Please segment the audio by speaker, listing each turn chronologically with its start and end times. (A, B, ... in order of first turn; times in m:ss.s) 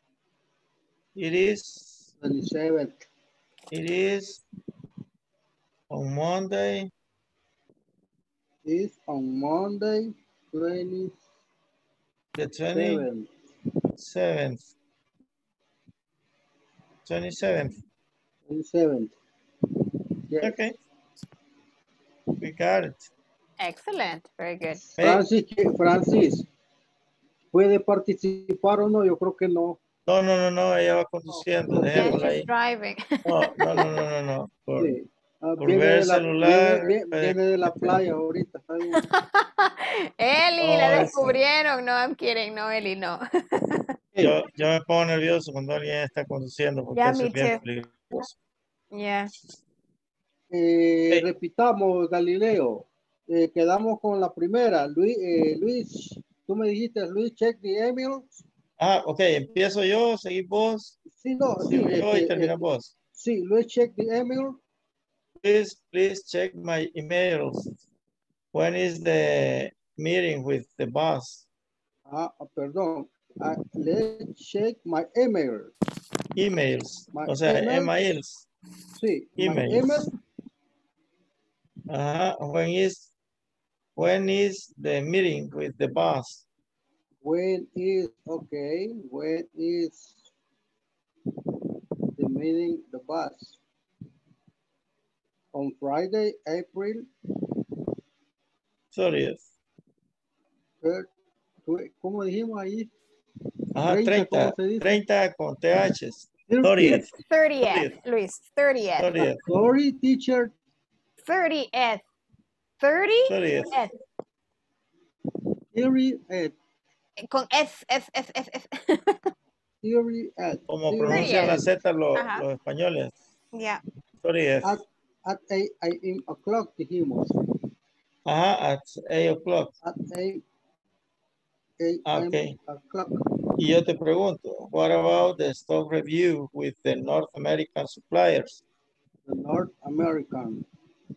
0:01.2-0:02.0 A
0:02.2-0:03.1 B
0:03.7-0:04.4 A
0:05.9-0:06.9 A
0:08.6-0:11.2 B
0:12.4-0:13.0 A
0:12.7-0:13.3 B
0:14.0-0:14.7 A
0:17.0-0:17.8 A
0:18.5-0:19.1 B
0:20.3-0:20.6 B
0:20.4-0:20.8 A
0:22.4-0:23.1 A
0:23.6-0:24.8 C
0:24.9-0:26.5 B
0:25.0-0:25.2 A
0:27.5-0:29.8 B
0:30.1-0:32.5 A
0:31.3-0:32.4 B
0:31.9-0:33.8 C
0:33.2-0:34.9 A
0:34.8-0:39.0 B
0:35.6-0:38.0 A
0:39.1-0:43.9 C
0:40.6-0:41.4 A
0:40.8-0:41.3 B
0:44.2-0:48.3 A
0:47.0-0:47.6 C
0:48.9-0:49.3 C
0:50.5-0:58.4 B
0:58.8-1:01.0 A
1:01.0-1:04.6 B
1:01.6-1:02.9 A
1:05.4-1:07.7 A
1:08.5-1:11.5 A
1:12.1-1:15.7 B
1:16.4-1:18.4 A
1:17.1-1:17.9 B
1:19.0-1:20.1 B
1:19.4-1:20.1 A
1:21.9-1:23.1 A
1:24.0-1:26.4 A
1:27.2-1:30.3 B
1:32.2-1:33.6 B
1:35.5-1:37.1 B
1:38.9-1:39.4 A
1:40.8-1:41.1 B
1:41.6-1:42.9 B
1:43.8-1:47.1 A
1:43.8-1:45.0 B
1:46.5-1:47.1 B
1:47.3-1:49.1 C
1:47.6-1:48.0 A
1:49.0-1:49.4 A
1:49.2-1:50.5 B
1:51.2-1:52.0 C
1:52.8-1:53.9 C
1:53.3-1:53.7 A
1:55.7-1:56.5 B
1:57.2-1:59.3 C
1:59.8-2:01.7 B
2:00.7-2:03.1 A
2:01.1-2:01.6 C
2:02.2-2:02.4 C
2:03.6-2:03.8 C
2:04.2-2:04.8 A
2:04.6-2:07.4 B
2:08.3-2:09.7 A
2:09.8-2:10.4 B
2:11.8-2:13.2 B
2:12.1-2:12.6 A
2:13.6-2:18.6 A
2:19.3-2:20.7 B